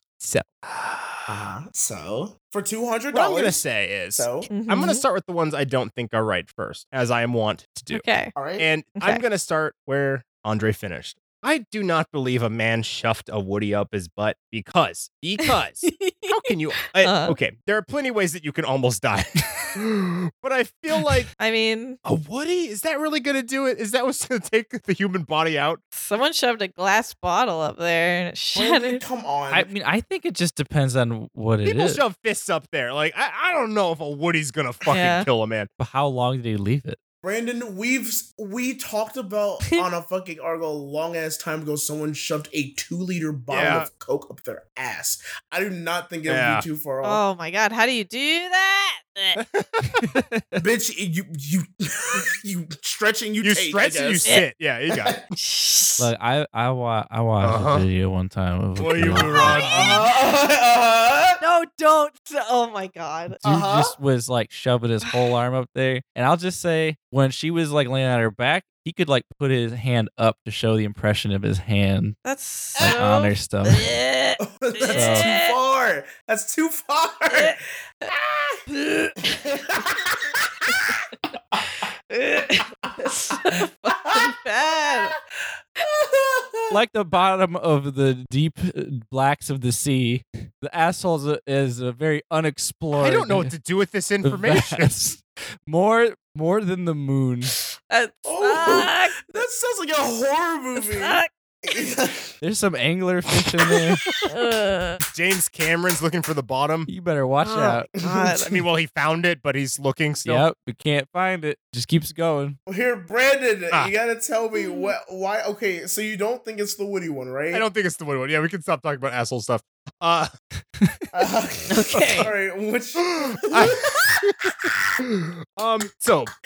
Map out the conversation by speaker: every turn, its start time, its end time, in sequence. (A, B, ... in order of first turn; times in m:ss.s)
0:00.2-0:01.2 A
0:01.3-0:04.5 B
0:03.1-0:08.0 A
0:04.5-0:05.0 C
0:07.9-0:08.3 C
0:08.3-0:08.7 B
0:08.6-0:21.3 A
0:09.0-0:09.2 C
0:15.4-0:17.4 C
0:21.4-0:22.0 C
0:22.0-0:25.8 A
0:25.9-0:29.0 C
0:28.5-0:29.7 B
0:29.5-0:32.0 D
0:31.6-0:35.7 A
0:34.9-0:35.3 C
0:35.8-0:37.0 D
0:37.2-0:47.2 B
0:43.5-0:43.9 A
0:46.2-0:46.6 A
0:47.0-0:49.4 C
0:49.4-0:50.0 A
0:50.0-0:50.6 D
0:50.5-0:54.4 B
0:53.4-0:55.2 A
0:54.9-0:55.2 B
0:55.3-0:56.1 C
0:56.0-0:59.9 D
0:57.4-0:57.8 A
0:58.8-1:00.0 A
0:59.0-1:01.4 B
1:01.4-1:03.4 C
1:03.4-1:03.9 B
1:03.4-1:12.2 D
1:12.2-1:15.5 C
1:12.8-1:13.9 D
1:14.4-1:18.6 B
1:14.8-1:15.3 D
1:17.3-1:18.1 C
1:18.7-1:19.4 C
1:19.4-1:20.9 B
1:22.1-1:25.1 C
1:22.8-1:23.4 B
1:24.0-1:25.1 B
1:25.8-1:26.8 B
1:26.7-1:33.5 D
1:33.0-1:34.9 A
1:34.2-1:37.5 D
1:37.9-1:39.4 C
1:38.2-1:42.4 B
1:40.8-1:41.3 C
1:42.4-1:44.0 D
1:44.2-1:45.0 C
1:45.1-1:46.9 A
1:46.9-1:47.9 D
1:47.4-1:48.6 C
1:48.0-1:48.5 B
1:48.5-1:50.4 A
1:50.2-1:52.6 D
1:52.7-1:57.7 B
1:54.6-1:54.9 C
1:57.5-2:00.3 A
2:01.1-2:04.6 B
2:01.7-2:02.3 C
2:03.0-2:06.3 A